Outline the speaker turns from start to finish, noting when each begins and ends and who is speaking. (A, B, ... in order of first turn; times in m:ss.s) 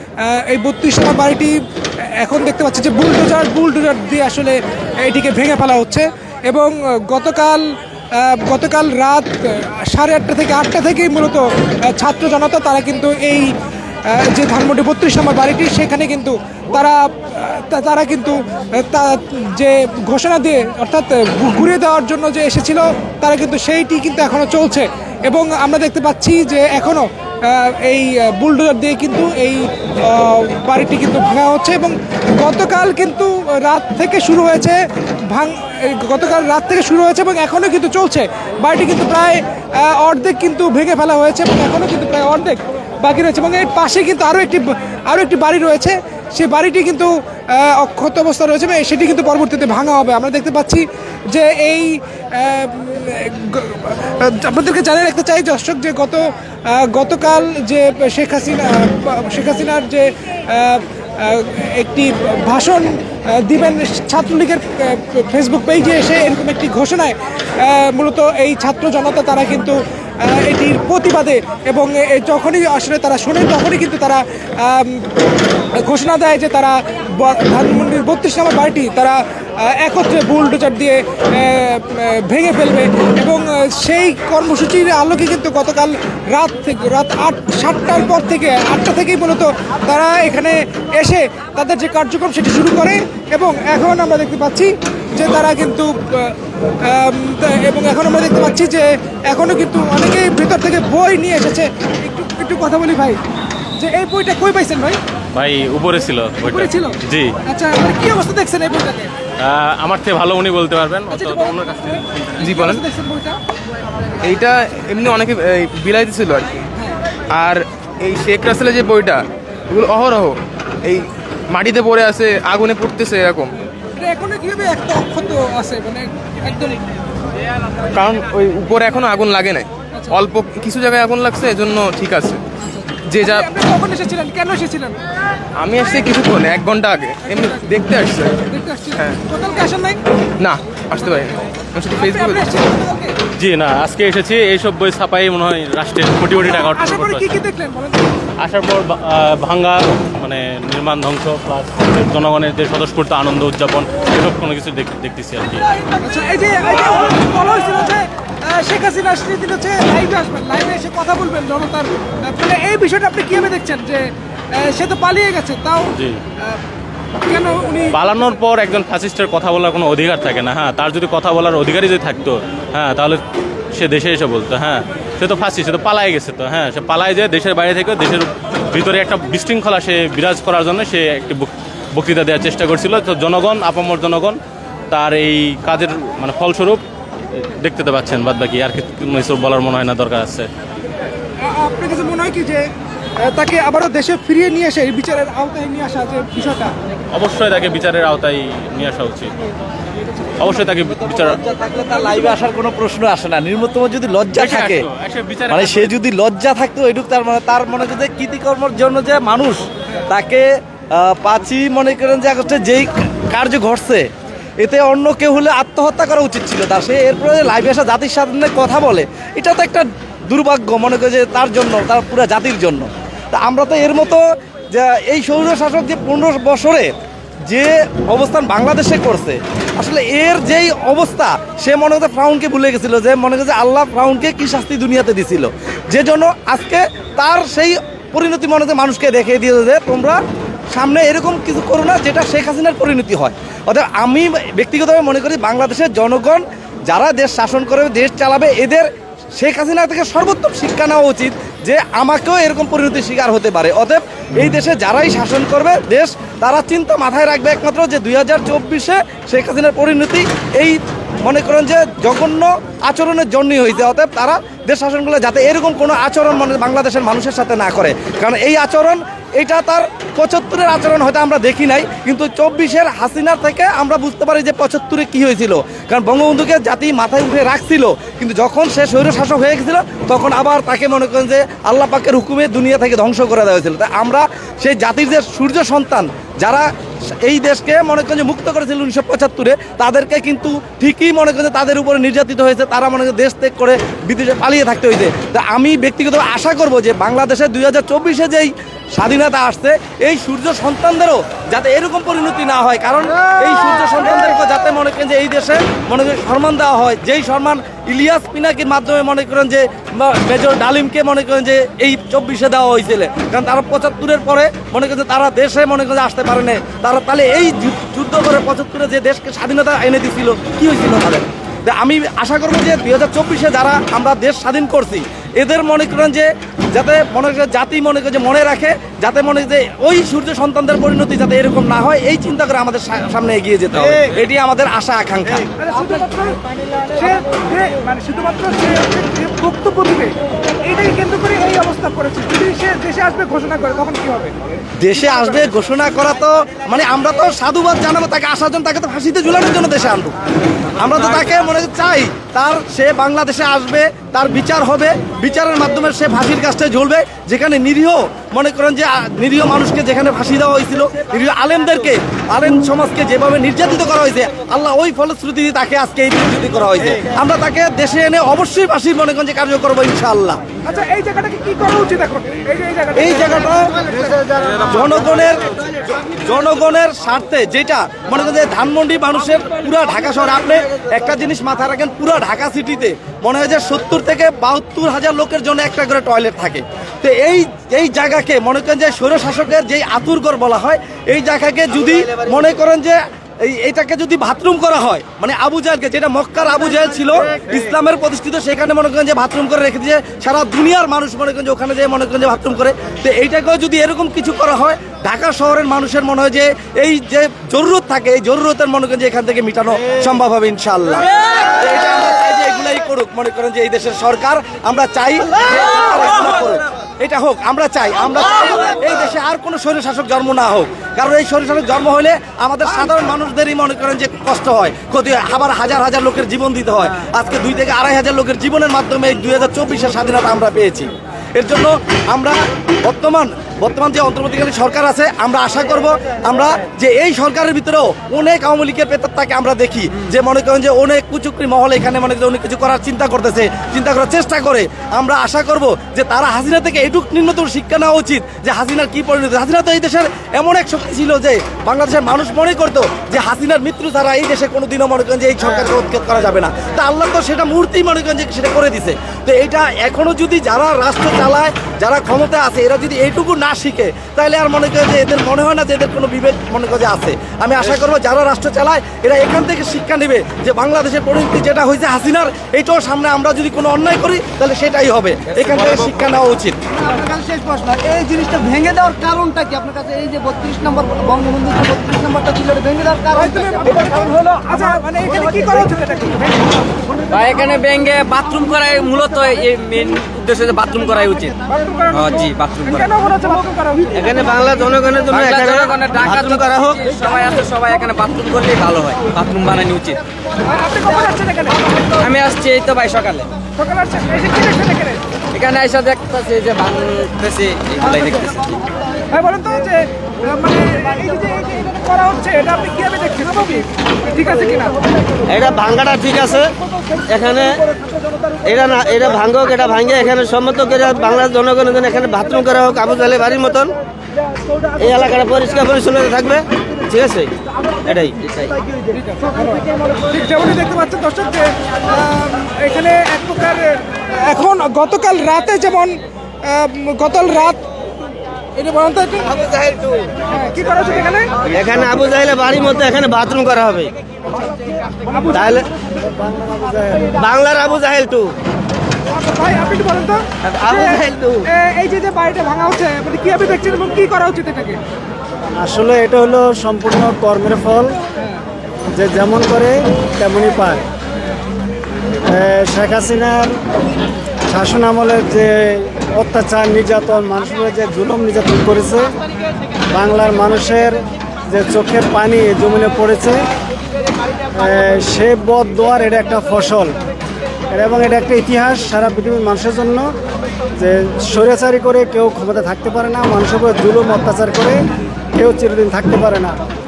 0:00.2-0:01.6 A
0:02.1-0:13.5 A
0:14.1-1:15.0 A
1:15.7-1:43.2 A
1:43.8-1:45.0 A
1:45.3-1:47.3 B
1:46.5-1:49.1 A
1:49.4-1:52.5 B
1:51.1-1:53.4 A
1:52.5-1:52.8 C
1:54.2-1:56.6 C
1:57.3-2:03.5 C
2:04.0-2:06.8 A
2:07.9-2:12.4 C
2:12.7-2:15.0 A
2:13.1-2:13.4 C
2:15.6-2:18.4 C
2:17.3-2:17.7 A
2:18.5-2:20.0 A
2:20.4-2:22.4 C
2:22.0-2:23.1 A
2:23.4-2:27.3 B
2:26.5-2:28.1 A
2:28.4-2:35.7 B
2:35.9-2:46.6 A
2:45.9-2:46.2 B
2:47.2-2:48.0 A
2:47.9-2:53.2 B
2:53.7-3:04.4 B
3:04.9-3:06.8 B
3:07.3-3:10.5 B
3:11.4-3:12.6 A
3:13.2-3:16.7 A
3:17.1-3:19.3 B
3:20.4-3:21.4 B
3:21.3-3:24.8 D
3:24.4-3:25.9 B
3:25.5-3:34.1 D
3:34.6-3:44.2 D
3:44.7-3:46.9 D
3:47.5-4:00.2 D
4:00.7-4:46.6 D
4:47.2-5:35.5 D
5:35.6-5:36.3 A
5:36.9-5:40.1 A
5:40.6-5:44.3 A
5:44.8-5:50.1 D
5:50.8-6:10.4 D
6:10.6-6:13.5 A
6:13.0-6:13.9 D
6:14.6-6:15.4 D
6:16.0-7:56.6 D
7:57.8-8:02.3 E
7:59.1-7:59.4 F
8:00.4-8:00.8 F
8:03.1-8:06.6 A
8:07.1-8:11.3 E
8:07.1-8:11.3 F
8:11.5-8:14.0 A
8:11.9-8:12.8 F
8:12.2-8:12.5 E
8:13.9-8:16.9 G
8:15.2-8:16.4 E
8:15.2-8:19.9 F
8:17.0-8:20.0 E
8:20.5-8:21.7 A
8:22.0-8:23.2 F
8:22.1-8:23.2 E
8:23.6-8:25.0 A
8:25.3-8:28.3 F
8:25.4-8:26.6 E
8:27.2-8:27.6 E
8:29.1-8:34.7 A
8:35.2-8:36.5 G
8:37.0-8:37.6 G
8:38.4-8:43.7 G
8:44.8-8:48.6 G
8:49.2-8:57.6 A
8:58.6-8:59.4 A
9:00.2-9:01.3 A
9:01.5-9:03.9 G
9:05.0-9:05.5 A
9:05.3-9:05.7 G
9:06.0-9:07.1 H
9:07.1-9:08.3 G
9:09.1-9:14.8 A
9:10.4-9:11.4 G
9:15.6-9:18.0 H
9:18.9-9:20.8 H
9:22.3-9:23.6 H
9:24.5-9:29.1 H
9:29.9-9:33.4 H
9:34.5-9:37.0 H
9:37.7-9:40.1 H
9:40.8-9:44.8 H
9:45.3-9:46.6 H